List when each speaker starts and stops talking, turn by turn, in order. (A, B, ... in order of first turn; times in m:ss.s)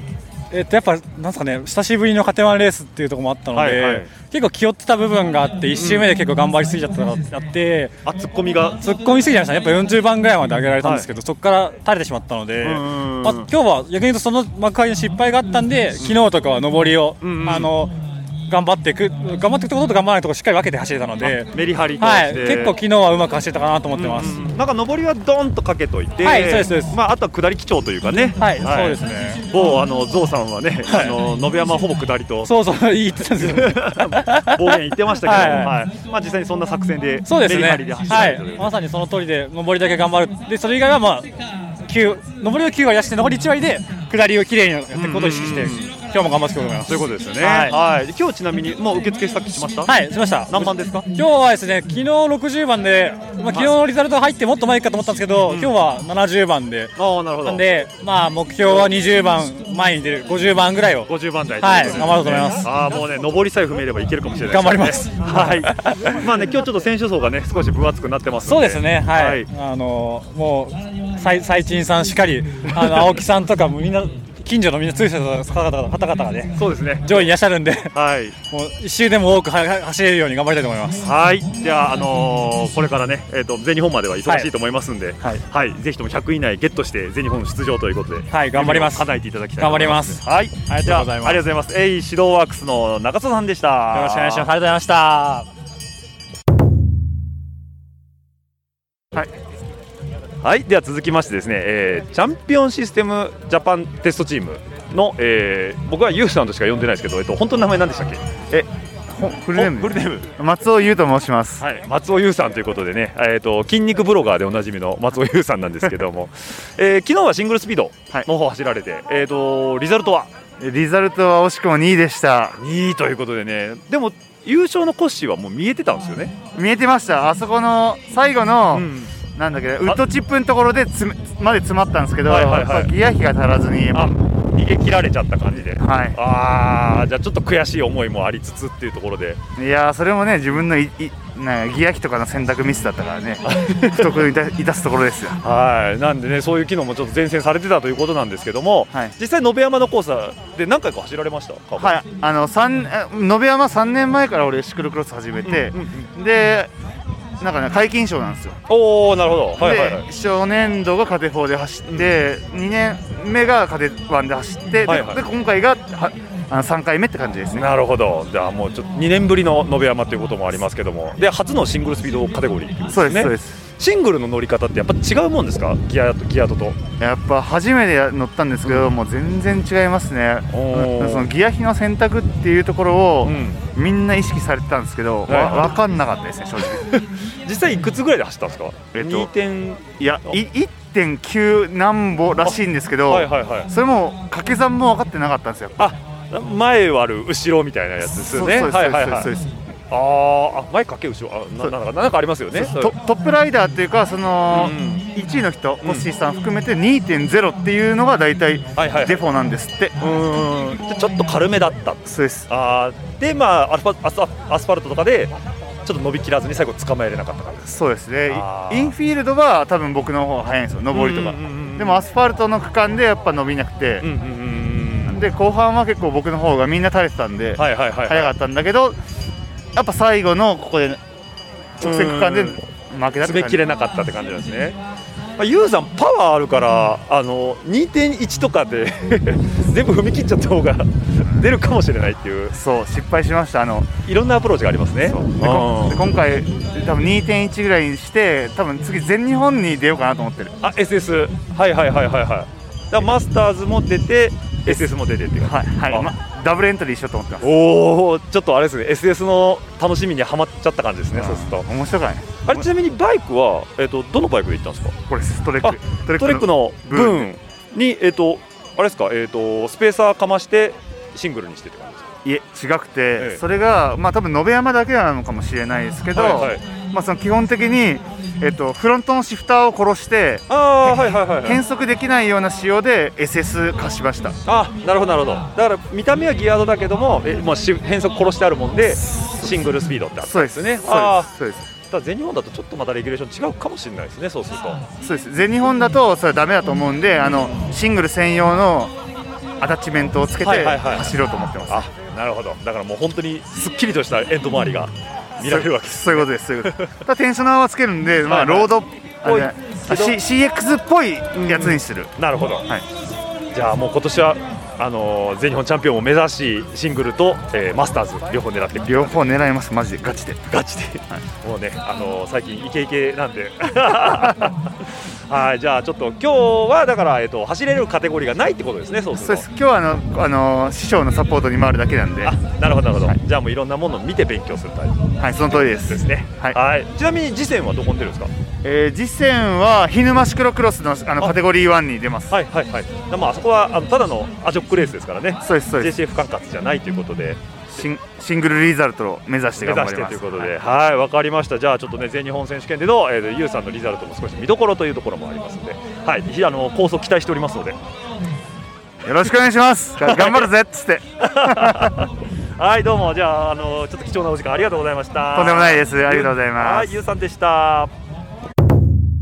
0:00.5-0:07.9 A
0:03.5-0:04.1 B
0:05.7-0:06.1 B
0:08.0-0:08.8 B
0:08.8-0:17.9 A
0:10.8-0:11.1 B
0:12.6-0:13.5 B
0:16.0-0:16.2 B
0:17.2-0:17.7 B
0:18.5-0:24.5 A
0:21.2-0:22.8 B
0:23.9-0:32.6 B
0:26.2-0:27.0 A
0:28.4-0:29.8 A
0:30.9-0:31.2 A
0:32.4-0:35.8 A
0:33.4-0:38.7 B
0:37.3-0:41.3 A
0:41.8-0:47.8 A
0:44.9-0:45.9 B
0:46.8-0:49.9 B
0:49.8-0:56.9 A
0:50.5-0:51.0 B
0:55.5-0:55.7 B
0:57.0-0:57.6 B
0:57.4-1:02.7 A
1:01.1-1:09.5 B
1:04.5-1:06.2 A
1:08.4-1:17.9 A
1:12.7-1:13.2 B
1:16.6-1:17.3 B
1:17.9-1:18.4 B
1:18.5-1:21.1 A
1:21.0-1:34.5 B
1:28.3-1:31.4 A
1:33.9-1:35.4 A
1:40.4-1:48.2 B
1:48.5-1:51.6 C
1:49.5-1:50.3 B
1:51.6-2:00.3 B
2:00.6-2:02.6 C
2:02.6-2:06.4 B
2:06.6-2:14.1 C
2:08.7-2:09.1 B
2:12.3-2:12.9 B
2:13.9-2:19.4 B
2:15.8-2:16.2 C
2:19.6-2:25.4 C
2:23.5-2:24.2 B
2:25.4-2:32.0 B
2:31.8-2:36.7 C
2:35.4-2:36.1 B
2:37.4-2:38.6 C
2:38.7-2:40.0 B
2:39.6-2:47.7 C
2:41.8-2:42.1 B
2:44.8-2:45.2 B
2:47.5-2:56.8 B
2:52.9-2:53.5 C
2:57.0-3:06.8 C
2:58.6-2:58.9 B
3:00.5-3:01.3 B
3:03.2-3:03.6 B
3:05.3-3:05.7 B
3:06.8-3:10.4 B
3:08.9-3:09.3 C
3:10.0-3:15.9 C
3:12.4-3:13.7 B
3:15.8-3:19.3 B
3:18.1-3:19.5 C
3:19.9-3:23.0 B
3:22.5-3:30.0 C
3:24.5-3:25.1 B
3:25.8-3:26.1 B
3:28.8-3:29.3 B
3:30.0-3:35.3 B
3:32.1-3:32.5 C
3:35.8-3:39.0 B
3:37.7-3:44.1 C
3:40.9-3:42.0 B
3:44.0-3:45.2 B
3:45.1-3:49.0 C
3:47.6-3:48.3 B
3:49.8-3:51.0 C
3:51.8-3:52.6 B
3:51.8-3:53.6 C
3:53.2-3:54.8 B
3:55.4-4:02.6 B
4:02.5-4:04.0 C
4:04.0-4:06.0 B
4:05.1-4:10.5 C
4:10.6-4:16.1 B
4:15.4-4:17.5 C
4:17.4-4:21.7 B
4:21.1-4:22.6 C
4:22.4-4:25.0 B
4:25.1-4:27.3 C
4:25.6-4:32.1 B
4:32.2-4:44.4 C
4:36.1-4:36.6 B
4:40.5-4:41.6 B
4:44.4-4:51.3 B
4:50.2-4:51.6 C
4:51.9-4:54.8 B
4:55.0-4:58.9 C
4:57.2-4:57.6 B
4:59.6-5:01.8 C
5:00.4-5:01.2 B
5:01.7-5:06.9 B
5:05.4-5:12.1 C
5:08.2-5:10.2 B
5:11.3-5:12.7 B
5:13.5-5:19.4 B
5:18.8-5:20.5 C
5:20.5-5:24.6 B
5:25.3-5:29.5 B
5:29.2-5:32.3 C
5:32.2-5:38.3 B
5:35.2-5:36.6 C
5:38.6-5:42.3 C
5:42.3-5:47.8 B
5:45.4-5:45.9 C
5:47.7-5:50.5 C
5:49.6-5:57.8 B
5:59.0-6:01.9 C
6:00.0-6:00.5 B
6:01.2-6:02.0 B
6:02.6-6:07.9 B
6:05.3-6:06.9 C